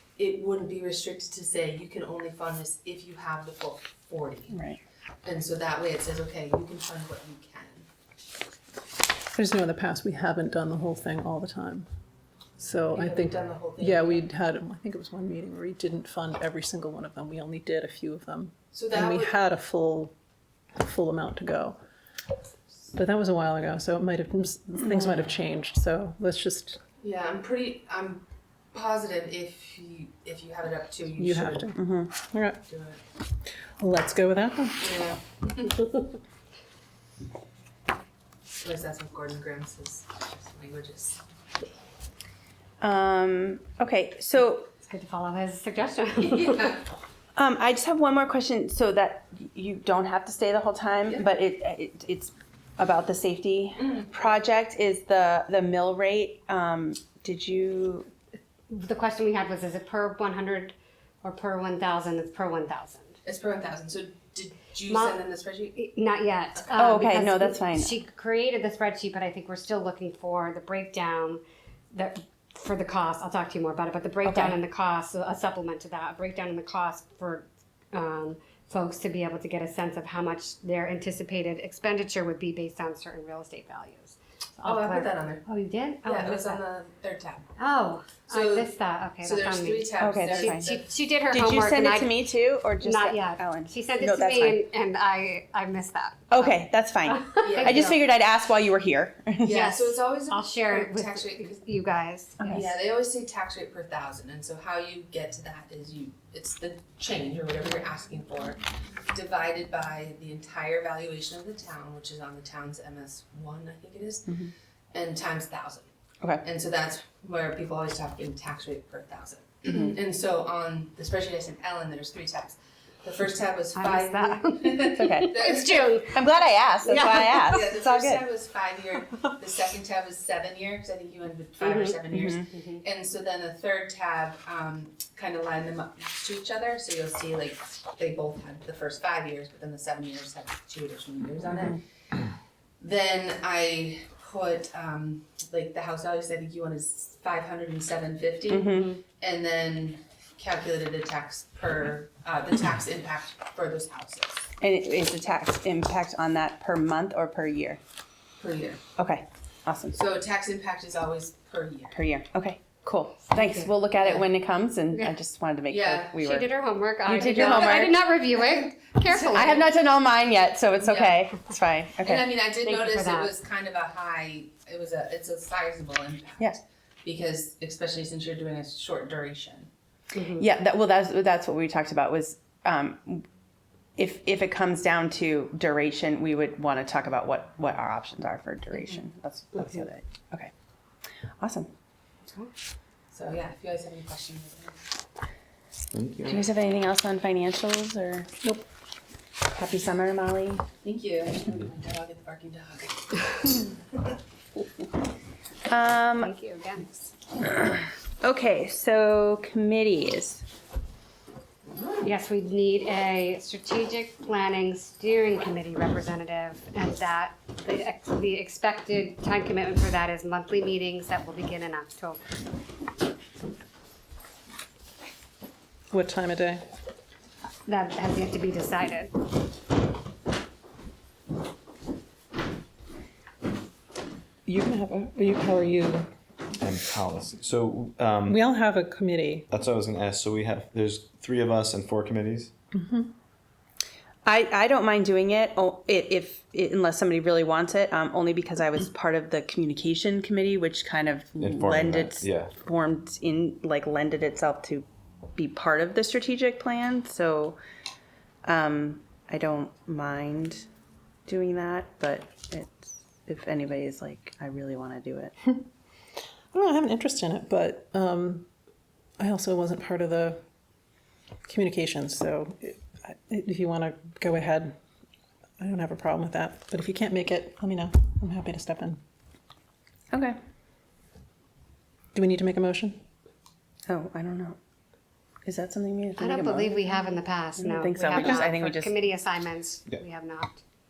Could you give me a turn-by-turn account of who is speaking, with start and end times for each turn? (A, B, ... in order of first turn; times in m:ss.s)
0:00.2-0:04.6 A
0:04.5-0:04.8 B
0:05.2-0:07.8 A
0:09.3-0:11.9 C
0:12.6-0:20.1 C
0:12.9-0:14.2 A
0:18.7-0:19.3 A
0:20.8-0:21.8 C
0:22.9-0:26.8 C
0:27.0-0:31.7 A
0:31.2-0:32.6 C
0:31.8-0:32.1 B
0:32.6-0:33.0 A
0:33.8-0:34.9 C
0:34.8-0:35.9 A
0:38.6-0:41.2 A
0:42.8-0:44.7 B
0:44.8-0:46.8 D
0:46.2-0:46.8 A
0:47.4-0:58.1 B
0:53.8-0:54.1 A
0:58.7-1:03.2 D
1:03.2-1:05.8 A
1:04.9-1:05.2 D
1:05.7-1:11.4 D
1:06.7-1:07.9 B
1:11.9-1:26.6 D
1:14.2-1:14.5 B
1:24.6-1:25.4 A
1:26.0-1:27.5 A
1:27.6-1:32.2 D
1:28.3-1:28.7 A
1:29.2-1:30.9 A
1:30.0-1:30.7 B
1:31.3-1:34.6 B
1:32.8-1:37.8 D
1:36.3-1:39.6 B
1:37.4-1:38.0 A
1:39.4-1:41.6 A
1:39.4-1:42.4 D
1:42.4-1:42.7 B
1:42.4-1:55.8 A
1:56.4-2:06.0 A
2:03.7-2:06.2 D
2:04.9-2:05.4 B
2:06.1-2:08.2 B
2:06.8-2:07.4 D
2:07.0-2:21.8 A
2:11.6-2:12.0 D
2:12.1-2:12.5 B
2:12.5-2:12.8 D
2:22.8-2:34.4 A
2:28.5-2:28.9 B
2:28.6-2:29.0 D
2:34.6-2:37.8 B
2:38.4-2:38.8 A
2:39.0-2:40.0 B
2:39.9-2:42.0 A
2:41.9-2:46.5 B
2:43.3-2:43.7 D
2:44.0-2:44.3 A
2:45.7-2:46.2 A
2:46.2-2:49.7 D
2:47.0-2:47.9 B
2:47.2-2:49.5 A
2:49.2-2:52.4 B
2:50.8-2:51.3 A
2:52.0-2:59.7 A
2:52.6-2:53.3 D
3:00.1-3:00.4 D
3:00.4-3:03.2 B
3:04.0-3:10.5 B
3:11.4-3:11.7 B
3:13.1-3:14.8 A
3:15.9-3:16.4 E
3:16.2-3:18.3 B
3:19.5-3:20.6 B
3:20.8-3:23.5 A
3:25.7-3:26.3 B
3:26.2-3:27.1 D
3:27.5-3:30.4 B
3:32.0-3:42.2 D
3:45.9-3:46.6 C
3:47.6-3:49.1 D
3:54.4-3:56.1 C
3:56.6-3:58.4 E
3:58.3-3:59.5 C
3:59.5-4:02.5 E
4:02.7-4:03.1 C
4:04.2-4:17.6 B
4:11.4-4:12.5 E
4:18.4-4:20.6 B
4:21.3-4:25.3 B
4:26.5-4:28.5 C
4:29.2-4:30.4 C
4:31.4-4:34.8 C
4:35.6-4:39.0 C
4:40.1-4:40.4 B
4:42.1-4:43.0 C
4:43.9-4:44.6 B
4:45.4-4:46.7 B
4:46.2-4:50.6 D
4:47.7-4:49.0 B
4:48.2-4:48.5 C